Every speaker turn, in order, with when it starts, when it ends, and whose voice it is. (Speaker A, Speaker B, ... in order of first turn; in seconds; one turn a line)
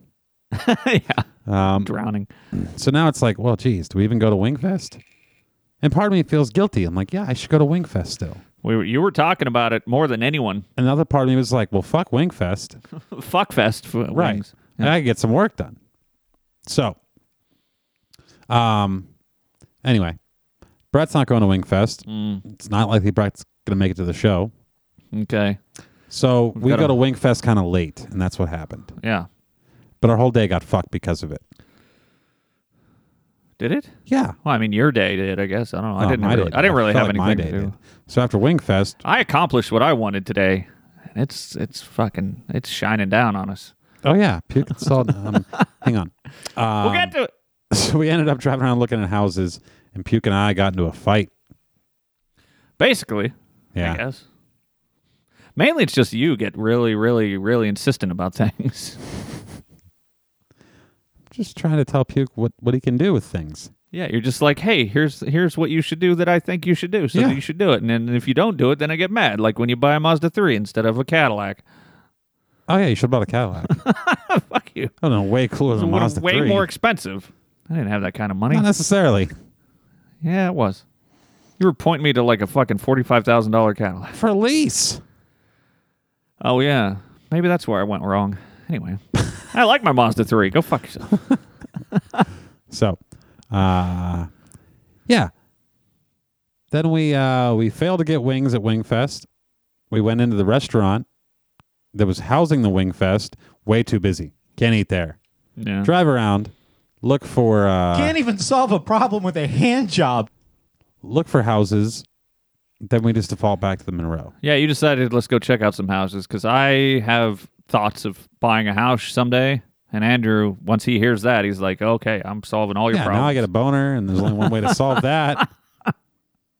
Speaker A: 0.5-1.2
Speaker B: 1.4-1.9
Speaker A: 1.8-2.3
Speaker B: 2.5-5.0
Speaker B: 5.8-8.4
Speaker A: 8.6-10.6
Speaker B: 10.8-12.8
Speaker A: 13.1-14.9
Speaker B: 14.1-15.8
Speaker B: 16.6-17.0
Speaker B: 18.5-19.1
Speaker B: 19.8-20.2
Speaker B: 20.9-24.5
Speaker A: 22.1-22.4
Speaker A: 25.1-25.6
Speaker B: 26.1-28.9
Speaker A: 26.6-26.9
Speaker A: 29.0-29.3
Speaker B: 30.0-31.4
Speaker A: 33.6-33.9
Speaker B: 34.1-34.4
Speaker A: 34.4-37.7
Speaker B: 36.0-39.0
Speaker A: 39.0-43.7
Speaker B: 44.0-47.1
Speaker A: 46.8-47.3
Speaker B: 47.7-51.3
Speaker A: 52.8-54.2
Speaker B: 53.7-54.0
Speaker A: 55.5-59.0
Speaker B: 61.3-63.7
Speaker A: 63.9-71.6
Speaker B: 67.1-67.4
Speaker B: 72.7-73.8
Speaker A: 73.7-74.9
Speaker B: 75.0-76.7
Speaker A: 75.7-78.7
Speaker B: 78.5-79.3
Speaker A: 80.2-80.8
Speaker A: 81.6-84.1
Speaker B: 84.1-85.0
Speaker A: 86.4-91.2
Speaker A: 91.9-92.2
Speaker B: 92.7-93.0
Speaker B: 93.5-94.3
Speaker B: 96.7-99.3
Speaker B: 99.9-101.0
Speaker B: 101.9-105.2
Speaker A: 105.6-105.9
Speaker B: 105.8-108.2
Speaker C: 107.9-110.3
Speaker B: 111.0-112.0
Speaker B: 112.8-114.3
Speaker A: 114.4-123.5
Speaker B: 122.9-125.5
Speaker A: 124.3-124.8